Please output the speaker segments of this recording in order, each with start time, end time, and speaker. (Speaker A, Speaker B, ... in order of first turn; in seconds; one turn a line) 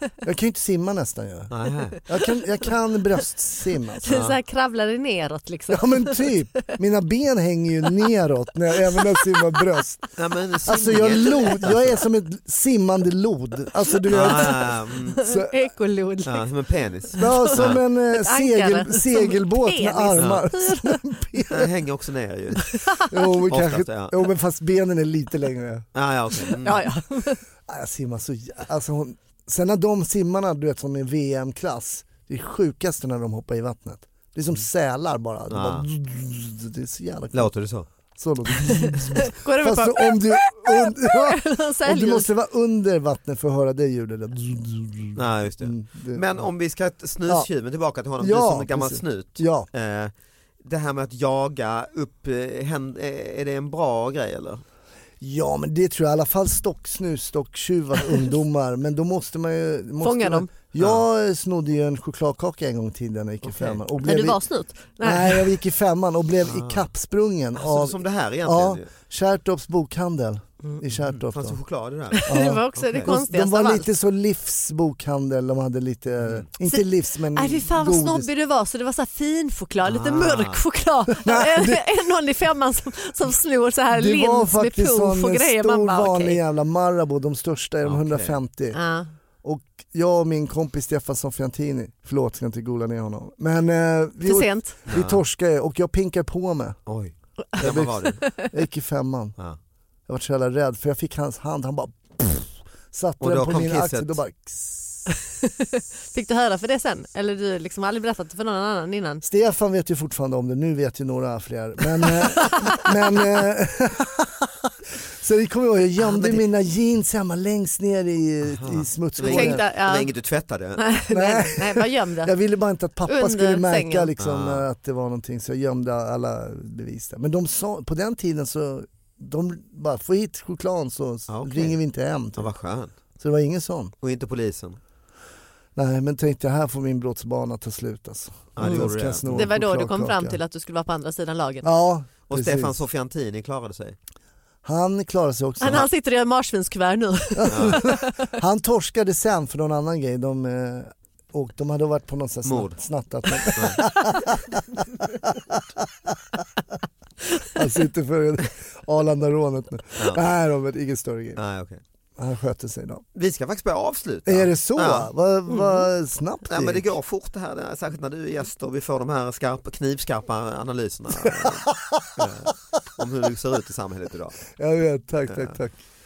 Speaker A: 0.2-1.5
Speaker B: 1.5-2.0
Speaker A: 2.0-4.2
Speaker C: 4.0-6.7
Speaker B: 4.1-4.4
Speaker A: 5.7-10.1
Speaker C: 8.9-9.4
Speaker B: 10.2-12.0
Speaker A: 10.6-15.5
Speaker C: 10.8-11.6
Speaker C: 13.9-14.4
Speaker B: 14.1-15.2
Speaker C: 15.1-16.5
Speaker B: 16.2-17.8
Speaker C: 17.1-21.0
Speaker A: 17.1-21.7
Speaker B: 20.1-20.4
Speaker B: 21.5-22.9
Speaker C: 22.7-23.1
Speaker A: 23.1-25.9
Speaker B: 23.5-24.2
Speaker B: 25.9-26.8
Speaker C: 26.6-27.4
Speaker A: 27.7-37.5
Speaker B: 35.5-35.9
Speaker B: 37.3-37.9
Speaker A: 38.1-46.4
Speaker C: 38.8-42.3
Speaker B: 45.1-54.6
Speaker A: 48.2-49.7
Speaker A: 55.2-64.4
Speaker C: 60.0-60.5
Speaker B: 60.8-61.0
Speaker C: 64.0-65.5
Speaker A: 65.0-71.6
Speaker B: 66.4-66.9
Speaker B: 67.5-68.9
Speaker B: 70.9-73.2
Speaker C: 72.1-73.9
Speaker A: 72.2-78.3
Speaker B: 76.2-76.5
Speaker C: 76.6-86.4
Speaker B: 79.8-80.6
Speaker A: 81.2-81.9
Speaker A: 83.9-88.8
Speaker B: 87.8-88.4
Speaker C: 88.7-89.1
Speaker A: 89.4-96.8
Speaker C: 94.2-94.8
Speaker B: 94.8-95.2
Speaker B: 96.9-98.2
Speaker A: 97.6-99.3
Speaker C: 98.2-98.5
Speaker A: 100.1-105.1
Speaker B: 103.2-104.2
Speaker C: 105.4-109.2
Speaker A: 109.2-114.7
Speaker A: 115.2-119.6
Speaker B: 116.1-116.4
Speaker B: 118.4-120.8
Speaker C: 119.2-120.1
Speaker C: 120.8-122.3
Speaker A: 121.1-132.5
Speaker C: 123.1-124.1
Speaker B: 124.2-124.7
Speaker B: 131.3-131.8
Speaker B: 132.3-132.9
Speaker A: 133.2-133.9
Speaker B: 134.0-134.8
Speaker A: 135.8-140.4
Speaker B: 138.5-139.5
Speaker C: 138.6-141.7
Speaker A: 141.6-142.7
Speaker B: 142.3-143.9
Speaker A: 144.6-145.9
Speaker C: 145.6-148.3
Speaker A: 147.4-156.4
Speaker B: 147.5-147.8
Speaker B: 152.4-152.8
Speaker B: 153.5-153.8
Speaker A: 157.5-161.4
Speaker B: 160.0-160.2
Speaker B: 161.3-161.8
Speaker A: 162.2-163.0
Speaker B: 163.1-165.1
Speaker A: 164.2-166.9
Speaker C: 165.5-165.8
Speaker B: 166.5-174.4
Speaker A: 171.2-172.3
Speaker A: 174.5-175.8
Speaker B: 175.3-175.6